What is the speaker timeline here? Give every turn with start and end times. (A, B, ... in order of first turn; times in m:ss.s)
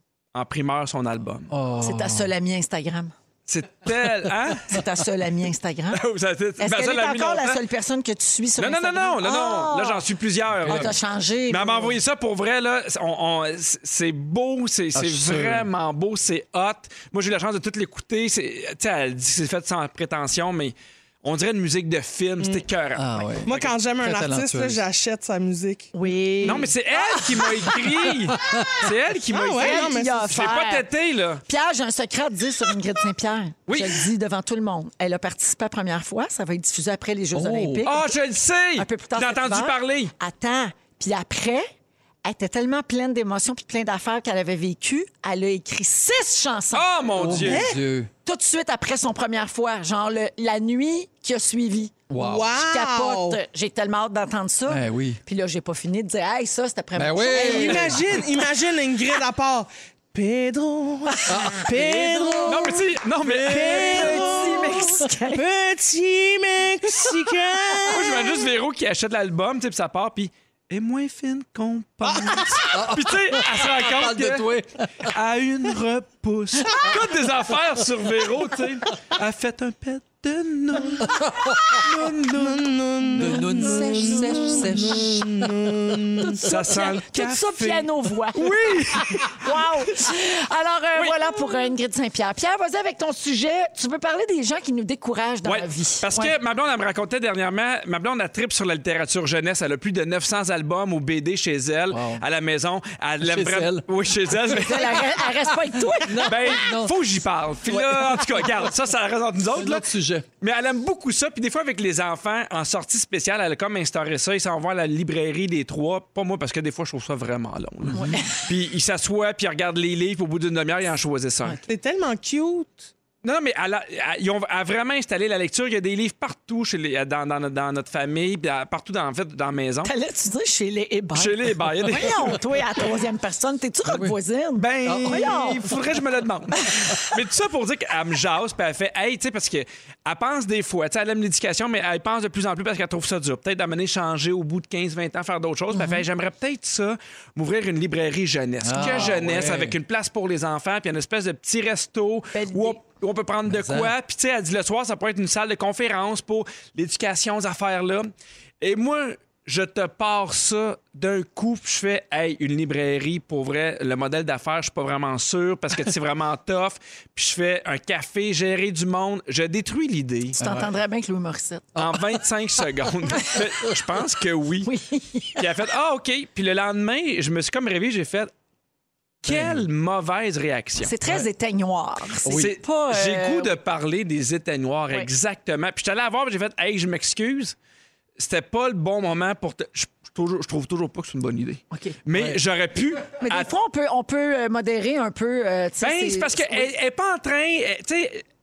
0:00.3-0:01.5 A
0:01.5-0:02.3 B
0:01.8-0:03.1 C
0:03.5-0:04.8 A
0:04.7-0:06.0 C
0:05.9-0:07.6 A
0:06.6-0:10.0 C
0:08.6-0:23.7 A
0:10.6-0:10.9 B
0:10.7-0:12.0 C
0:14.9-0:15.7 B
0:22.9-0:24.8 B
0:23.4-0:25.9 D
0:25.9-0:27.2 C
0:26.4-0:31.4 A
0:28.3-0:28.9 B
0:29.3-0:30.4 D
0:29.6-0:30.8 C
0:31.5-0:38.1 C
0:33.7-0:34.1 A
0:37.3-0:37.8 B
0:37.8-0:40.1 A
0:38.8-0:41.7 C
0:42.2-0:46.8 C
0:46.7-0:47.6 A
0:47.1-0:48.1 B
0:47.5-0:47.8 D
0:48.2-0:52.0 C
0:52.1-0:52.5 B
0:52.2-0:53.4 D
0:52.6-0:57.9 C
0:54.7-0:55.2 B
0:57.0-0:58.2 B
0:57.4-1:02.7 D
1:01.1-1:01.5 C
1:01.3-1:05.0 B
1:02.4-1:04.1 A
1:03.4-1:08.4 D
1:03.7-1:05.4 C
1:07.9-1:14.5 A
1:12.0-1:12.7 D
1:12.7-1:15.1 B
1:15.1-1:23.4 A
1:21.0-1:21.8 B
1:22.3-1:26.4 D
1:23.1-1:26.2 B
1:26.4-1:36.3 C
1:26.5-1:29.4 A
1:31.0-1:31.7 A
1:35.4-1:45.2 A
1:41.9-1:42.2 B
1:43.2-1:44.8 B
1:44.6-1:46.3 C
1:46.0-1:47.0 B
1:46.2-1:49.8 A
1:47.7-1:48.3 B
1:49.5-1:50.3 B
1:50.4-2:01.6 A
1:57.9-1:58.2 B
1:57.9-1:58.3 C
2:01.7-2:02.9 D
2:03.2-2:09.9 A
2:09.8-2:15.7 C
2:11.1-2:12.4 A
2:13.9-2:14.2 B
2:14.6-2:50.4 A
2:14.8-2:15.7 B
2:16.7-2:17.1 C
2:25.7-2:26.0 C
2:28.6-2:29.8 B
2:32.3-2:32.8 C
2:33.4-2:33.9 B
2:50.4-2:50.7 B
2:50.4-2:51.8 C
2:51.8-2:54.7 A
2:54.6-2:55.4 C
2:55.4-2:58.3 A
2:59.2-3:00.9 A
2:59.2-2:59.6 B
3:00.8-3:03.5 C
3:02.2-3:02.6 B
3:02.2-3:07.5 A
3:08.2-3:13.5 A
3:11.7-3:12.0 C
3:12.1-3:12.4 B
3:13.2-3:16.7 C
3:15.8-3:18.2 A